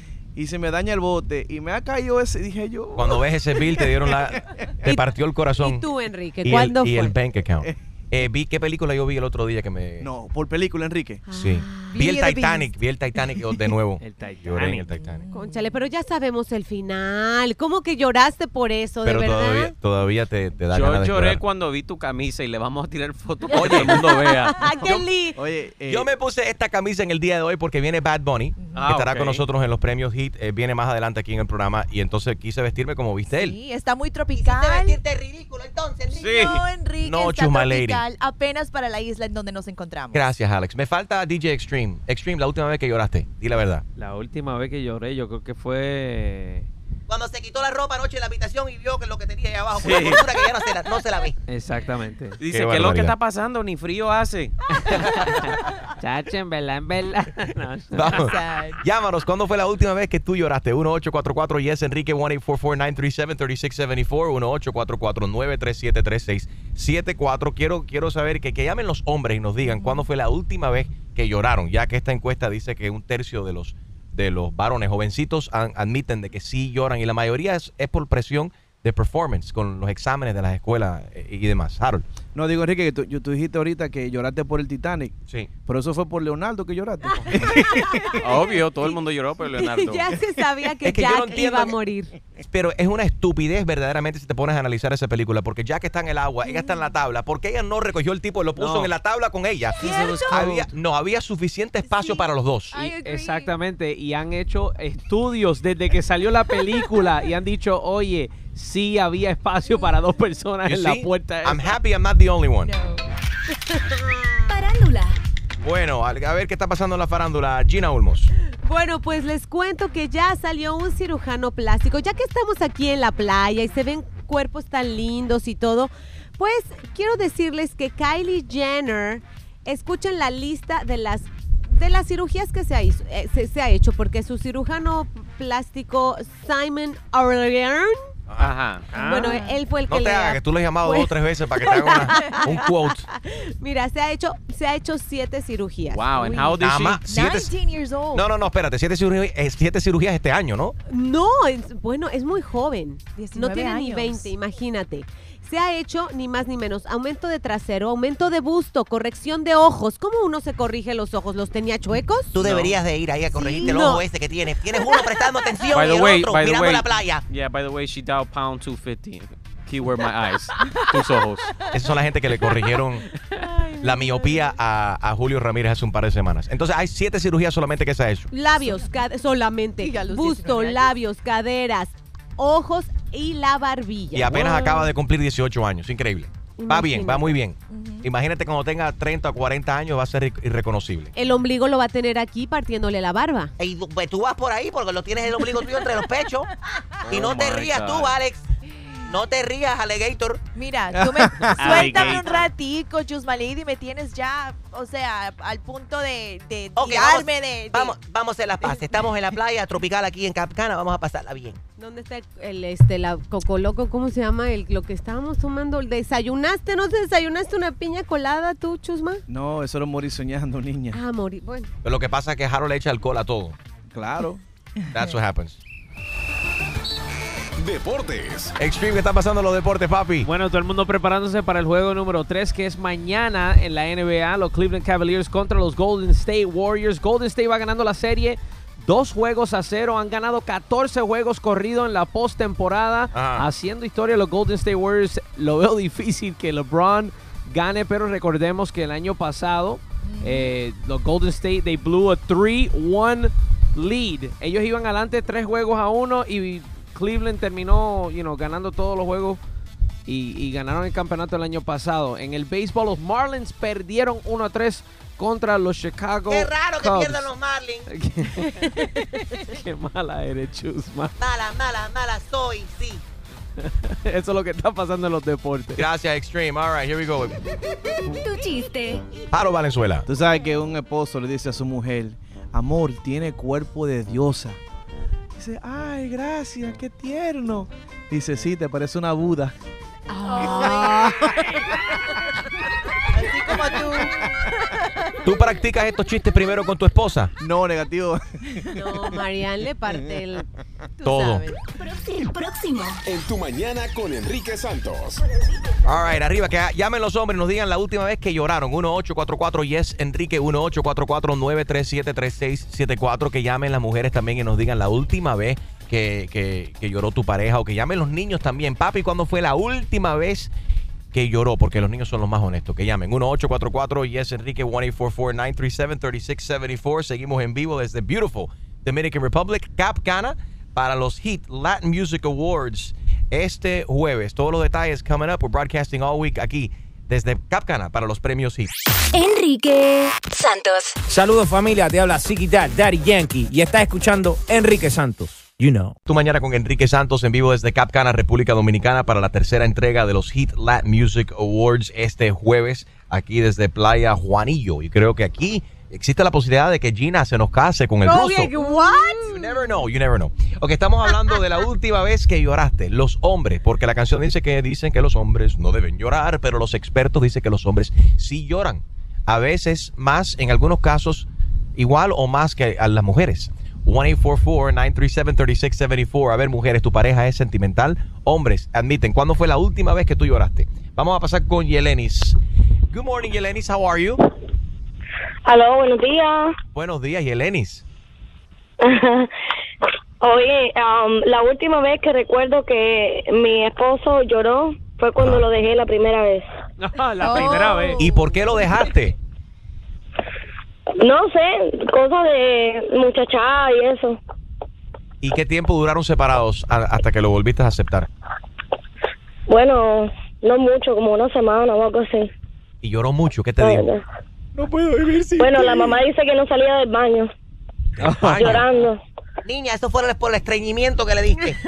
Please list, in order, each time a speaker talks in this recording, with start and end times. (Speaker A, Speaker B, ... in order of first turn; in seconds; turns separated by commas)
Speaker A: 0.3-4.7, Speaker B: 2.9-5.8, Speaker C: 4.8-7.1, Speaker B: 6.4-10.1, Speaker A: 10.0-11.2, Speaker C: 11.3-11.8, Speaker B: 11.3-15.2, Speaker D: 11.7-12.7, Speaker E: 14.0-14.8, Speaker F: 14.1-14.8, Speaker D: 15.2-15.6, Speaker C: 15.3-19.7, Speaker B: 19.0-21.4, Speaker F: 20.7-24.5, Speaker C: 23.5-25.4, Speaker B: 23.5-25.1, Speaker A: 25.4-26.1, Speaker B: 25.9-33.5, Speaker D: 28.6-28.9, Speaker F: 28.7-29.4, Speaker D: 33.3-35.0, Speaker G: 34.4-36.3, Speaker D: 36.1-40.2, Speaker F: 36.1-36.6, Speaker B: 37.0-38.0, Speaker B: 40.1-43.8, Speaker E: 44.0-46.7, Speaker G: 47.1-51.4, Speaker F: 49.8-50.2, Speaker E: 49.9-50.1, Speaker E: 51.5-52.4, Speaker F: 52.4-55.3, Speaker B: 52.5-53.1, Speaker E: 56.0-58.2, Speaker B: 57.9-82.0, Speaker D: 58.0-58.8, Speaker A: 82.3-85.1, Speaker A: 85.7-88.2, Speaker F: 88.2-90.1, Speaker C: 89.6-92.1, Speaker B: 90.8-91.7, Speaker B: 92.5-102.9, Speaker E: 98.6-98.9, Speaker D: 99.8-100.4, Speaker E: 99.8-100.6, Speaker D: 101.8-102.2, Speaker D: 102.7-103.5, Speaker E: 103.0-111.7, Speaker B: 110.6-112.7, Speaker D: 112.6-113.0, Speaker C: 113.7-114.5, Speaker H: 114.5-115.2, Speaker B: 115.6-118.3, Speaker C: 118.6-138.1, Speaker F: 138.4-139.3, Speaker D: 139.0-139.6, Speaker C: 139.0-142.7, Speaker B: 139.9-143.1, Speaker D: 141.8-142.4, Speaker C: 143.6-146.6, Speaker F: 145.9-147.0, Speaker D: 146.3-148.3, Speaker B: 146.6-147.5, Speaker B: 148.1-150.7, Speaker C: 150.9-162.4, Speaker D: 153.2-154.3, Speaker G: 162.3-167.2, Speaker F: 162.4-162.8, Speaker D: 163.3-163.9, Speaker C: 163.3-164.0, Speaker F: 165.7-171.5, Speaker B: 171.7-173.1, Speaker C: 173.7-174.2, Speaker B: 173.8-178.3, Speaker C: 178.3-184.9, Speaker D: 178.6-178.9, Speaker D: 179.8-180.9, Speaker B: 184.1-191.1, Speaker C: 186.6-187.4, Speaker D: 187.7-188.1, Speaker C: 191.1-193.5, Speaker G: 193.6-196.5, Speaker F: 197.1-198.2, Speaker G: 197.1-198.4, Speaker G: 199.0-200.4, Speaker D: 200.5-208.0, Speaker A: 200.9-201.8, Speaker F: 201.6-202.2, Speaker E: 201.7-202.2, Speaker G: 206.8-211.6, Speaker C: 211.8-219.2, Speaker A: 219.3-221.0, Speaker C: 220.9-221.7, Speaker B: 221.8-223.6, Speaker A: 223.9-224.4, Speaker B: 224.9-225.6, Speaker I: 227.6-228.5, Speaker B: 228.6-230.3, Speaker E: 230.2-259.4, Speaker B: 243.1-243.5, Speaker D: 250.0-250.5, Speaker E: 260.1-267.3, Speaker G: 266.3-267.8, Speaker E: 267.9-271.1, Speaker G: 271.2-273.0, Speaker E: 273.6-275.8, Speaker B: 275.8-277.3, Speaker H: 278.1-279.1, Speaker B: 279.3-280.1, Speaker A: 280.1-284.6, Speaker A: 285.4-289.5, Speaker C: 290.1-291.3, Speaker D: 290.3-291.3, Speaker D: 293.1-294.3, Speaker D: 294.8-295.2, Speaker B: 295.2-297.3, Speaker A: 297.4-298.8, Speaker C: 298.8-300.4, Speaker D: 301.0-301.6, Speaker B: 301.0-301.4, Speaker H: 301.8-303.0, Speaker I: 303.0-305.2, Speaker B: 305.8-320.5, Speaker B: 321.1-338.7, Speaker H: 339.1-340.9, Speaker J: 341.1-345.9, Speaker B: 346.1-358.5, Speaker C: 358.0-359.3, Speaker D: 358.9-359.2, Speaker B: 359.3-382.4, Speaker B: 382.9-384.2, Speaker K: 385.5-386.5, Speaker B: 386.7-387.8, Speaker K: 388.8-389.3, Speaker K: 390.2-396.5, Speaker B: 395.2-395.4, Speaker E: 396.8-398.1, Speaker D: 397.2-398.4, Speaker B: 398.0-399.1, Speaker K: 401.0-404.2, Speaker B: 405.2-408.1, Speaker K: 409.5-412.3, Speaker B: 412.8-413.9, Speaker K: 413.6-414.0, Speaker B: 414.6-415.5, Speaker K: 415.4-417.3, Speaker B: 418.0-418.7, Speaker K: 418.3-419.0, Speaker G: 419.4-421.6